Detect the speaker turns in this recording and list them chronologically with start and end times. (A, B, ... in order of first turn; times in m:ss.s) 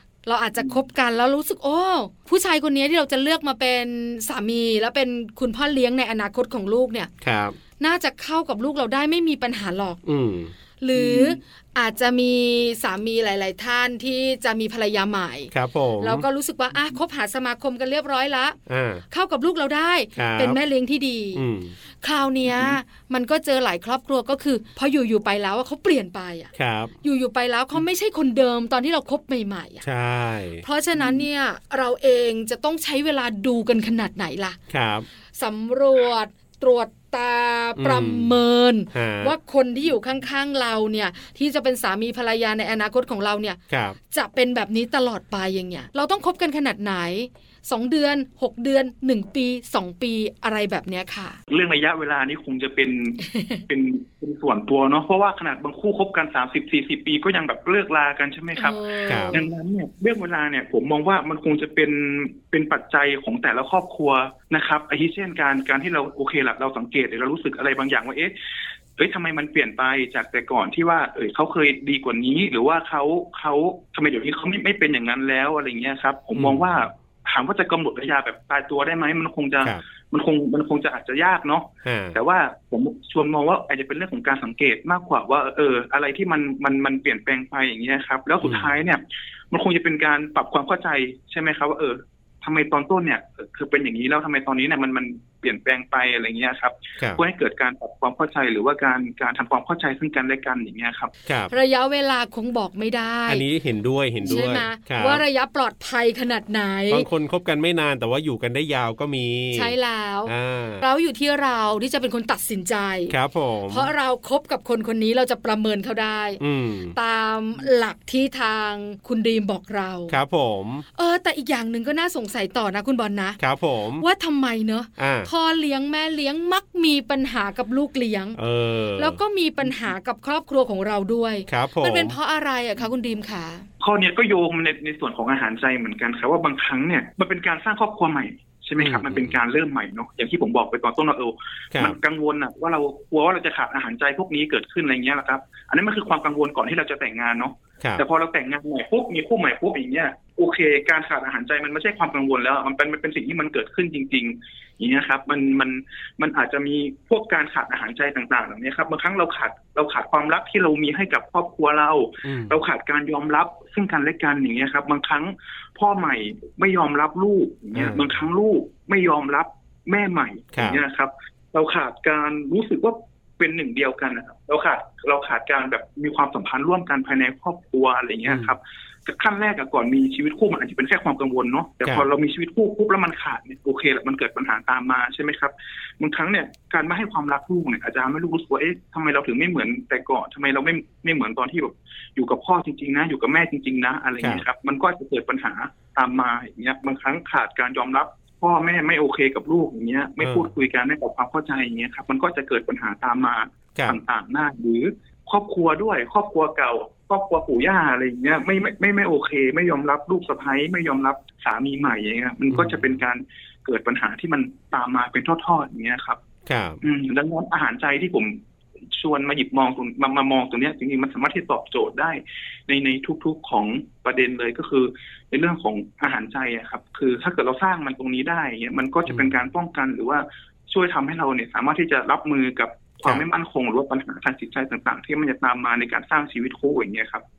0:00.2-0:07.1 A
0:07.2-0:07.6 B
0:07.8-0:10.0 A
0:10.0-0:11.3 B
0:10.8-0:18.6 A
0:15.5-0:16.2 B
0:18.7-0:19.0 B
0:19.1-0:21.4 A
0:20.2-0:20.6 B
0:21.3-0:21.7 B
0:22.0-0:26.5 A
0:26.5-0:26.9 B
0:27.0-0:29.8 A
0:29.8-0:30.6 B
0:30.6-0:34.6 A
0:34.7-0:35.0 B
0:35.4-0:43.6 A
0:37.8-0:38.4 B
0:38.9-0:39.3 B
0:43.7-0:44.0 B
0:44.1-0:51.4 A
0:51.5-1:08.3 C
0:53.2-0:53.6 A
0:58.5-0:59.4 A
0:59.1-0:59.4 B
1:09.0-1:41.1 C
1:16.3-1:16.7 B
1:21.8-1:22.2 B
1:28.4-1:28.7 B
1:41.2-1:41.5 B
1:41.5-1:43.4 A
1:43.3-1:45.2 B
1:44.2-1:47.1 A
1:46.9-1:49.7 B
1:49.5-1:53.1 A
1:50.2-1:50.8 B
1:53.1-1:53.9 B
1:53.7-1:56.4 A
1:56.4-1:57.0 B
1:56.9-2:00.2 A
2:00.1-2:00.8 B
2:00.9-2:03.4 A
2:03.4-2:04.0 B
2:04.0-2:08.4 A
2:05.0-2:05.3 B
2:08.4-2:09.2 B
2:09.0-2:13.7 A
2:11.5-2:12.2 B
2:13.8-3:36.2 C
2:18.8-2:19.4 B
2:21.7-2:22.0 B
2:42.2-2:42.6 B
2:47.7-2:48.2 B
2:50.5-2:50.8 B
2:58.3-2:58.5 B
3:20.2-3:20.5 B
3:32.5-3:32.9 B
3:36.4-3:36.8 B
3:36.8-3:38.4 C
3:38.9-3:57.2 C
3:49.1-3:49.3 B